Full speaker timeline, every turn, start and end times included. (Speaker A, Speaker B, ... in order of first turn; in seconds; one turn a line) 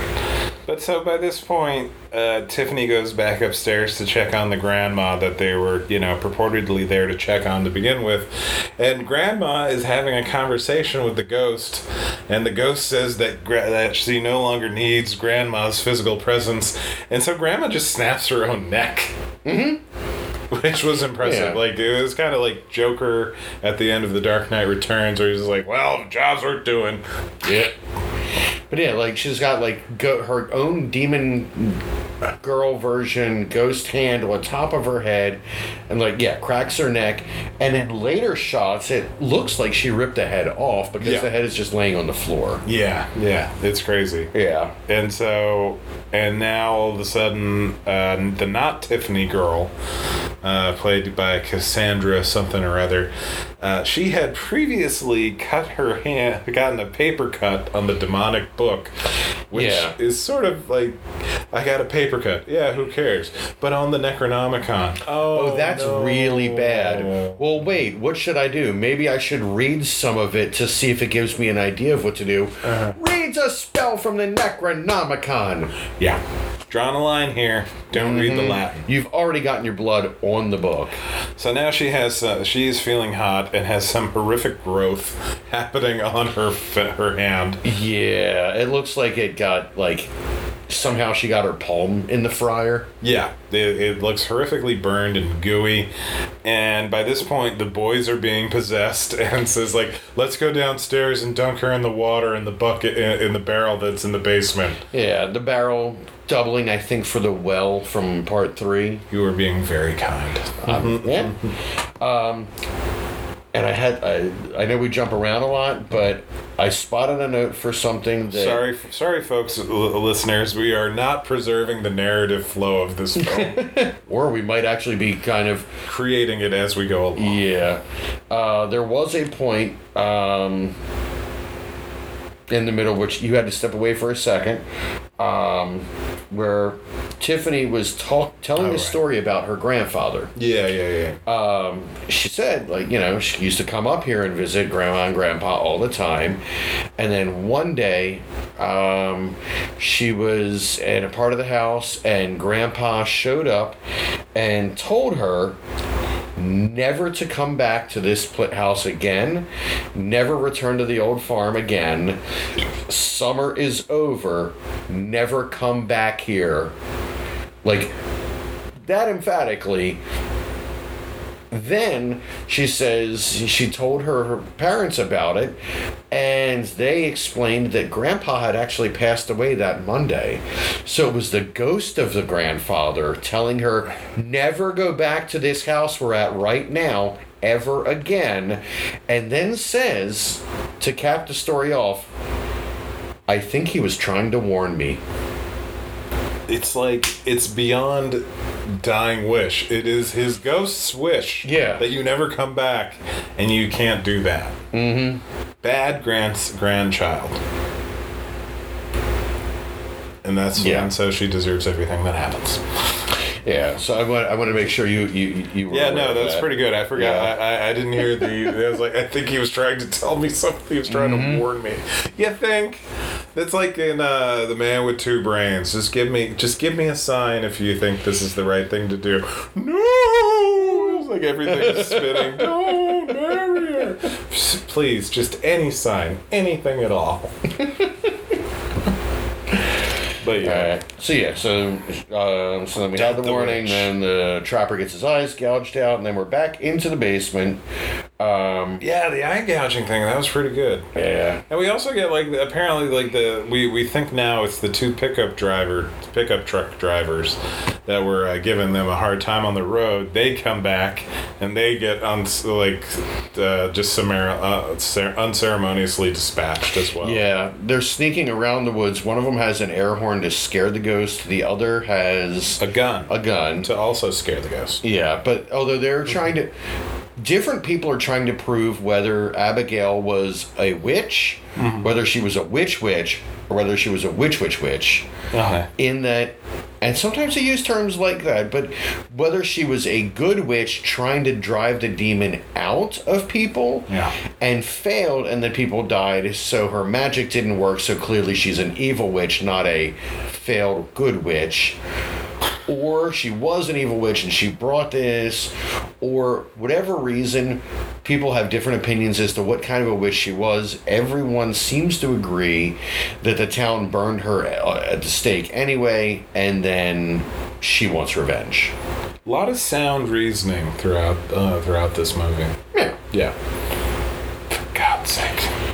Speaker A: 0.7-19.1
Speaker B: 19.4-19.8
Speaker A: 20.5-27.0
Speaker B: 21.2-21.6
Speaker B: 27.4-27.7
Speaker B: 28.7-31.8
Speaker B: 32.4-42.6
Speaker A: 41.0-41.3
Speaker A: 42.6-44.3
Speaker B: 44.3-44.8
Speaker A: 44.9-49.7
Speaker A: 50.4-53.1
Speaker A: 53.6-58.9
Speaker A: 59.5-61.0
Speaker B: 59.5-60.0
Speaker A: 61.5-67.4
Speaker B: 65.2-75.7
Speaker A: 72.6-73.0
Speaker A: 76.0-78.8
Speaker B: 77.9-81.0
Speaker A: 81.4-87.6
Speaker B: 87.6-90.1
Speaker B: 90.7-92.9
Speaker A: 93.0-95.9
Speaker A: 96.5-104.8
Speaker B: 104.9-109.0
Speaker A: 109.1-111.5
Speaker B: 110.6-111.4
Speaker B: 112.0-112.5
Speaker B: 113.5-118.6
Speaker A: 118.3-123.8
Speaker B: 123.2-125.7
Speaker A: 125.8-127.5
Speaker B: 127.2-130.8
Speaker B: 132.5-134.6
Speaker B: 135.2-140.3
Speaker A: 138.6-139.0
Speaker A: 140.4-141.2
Speaker B: 141.3-146.4
Speaker B: 147.0-153.8
Speaker B: 154.3-155.6
Speaker B: 156.4-162.2
Speaker B: 162.9-166.7
Speaker B: 167.6-167.9
Speaker B: 168.8-170.0
Speaker B: 171.5-175.6
Speaker B: 176.1-192.1
Speaker B: 193.3-195.0
Speaker A: 196.5-204.6
Speaker B: 201.4-201.9
Speaker B: 204.7-205.2
Speaker A: 205.6-207.4
Speaker A: 210.2-212.6
Speaker B: 210.6-210.9
Speaker B: 213.4-217.3
Speaker A: 215.7-222.8
Speaker B: 220.9-221.4
Speaker A: 223.3-237.5
Speaker B: 230.6-233.9
Speaker B: 237.6-238.1
Speaker A: 240.2-240.8
Speaker B: 240.4-247.6
Speaker A: 242.9-243.9
Speaker B: 248.2-248.8
Speaker A: 248.8-250.9
Speaker B: 250.9-251.4
Speaker A: 251.5-267.2
Speaker B: 267.0-273.7
Speaker A: 272.6-274.8
Speaker B: 274.8-276.5
Speaker B: 277.2-285.1
Speaker A: 281.6-281.9
Speaker A: 285.3-285.7
Speaker B: 285.8-301.8
Speaker A: 293.9-294.1
Speaker B: 302.7-318.7
Speaker A: 319.3-322.6
Speaker A: 324.5-325.5